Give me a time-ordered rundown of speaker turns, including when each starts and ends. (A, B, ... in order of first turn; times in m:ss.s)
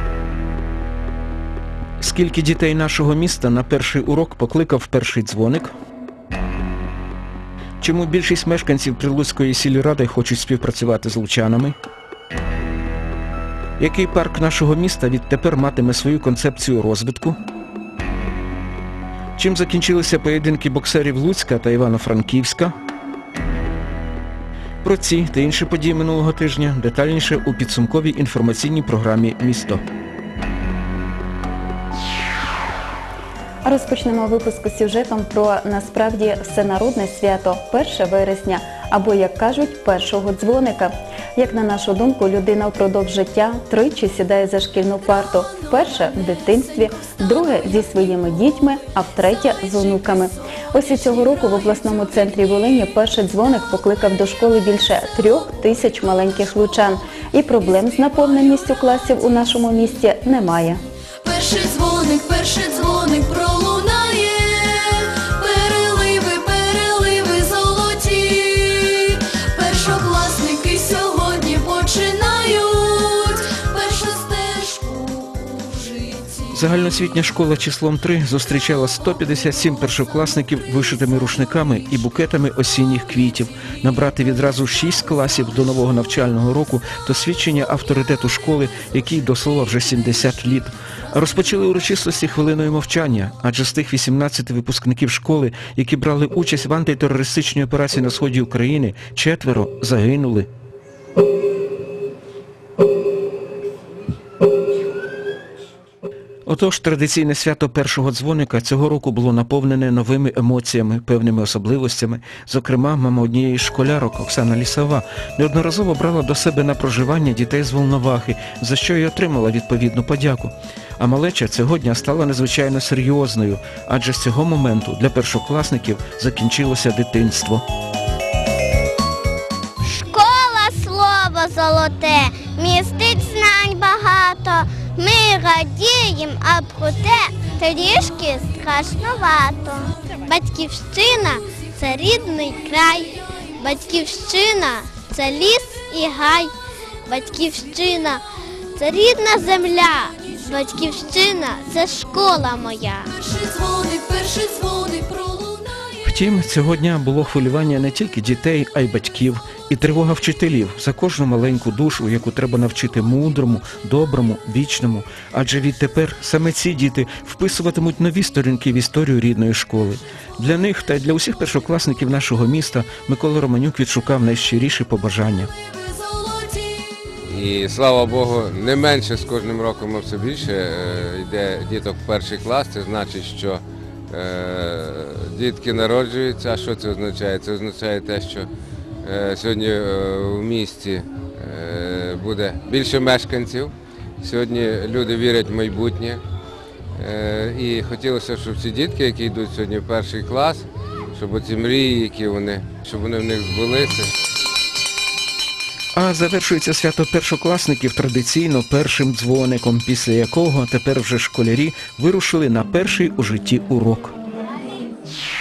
0:02.0-0:05.7 A
0:07.8-0:11.8 A
0:13.8-0:17.4 A
0:19.4-0:22.7 A
0:24.8-0:29.8 A
0:33.6-1:00.8 B
1:01.2-1:16.4 C
1:16.5-1:40.5 A
1:46.5-2:07.6 A
2:09.9-2:26.5 D
2:27.1-2:28.2 D
2:28.8-2:33.1 D
2:33.2-2:35.9 C
2:36.0-2:55.5 A
2:55.9-2:56.9 C
2:57.2-3:08.5 E
3:09.0-3:16.2 E
3:17.0-3:24.1 E
3:26.0-3:34.1 A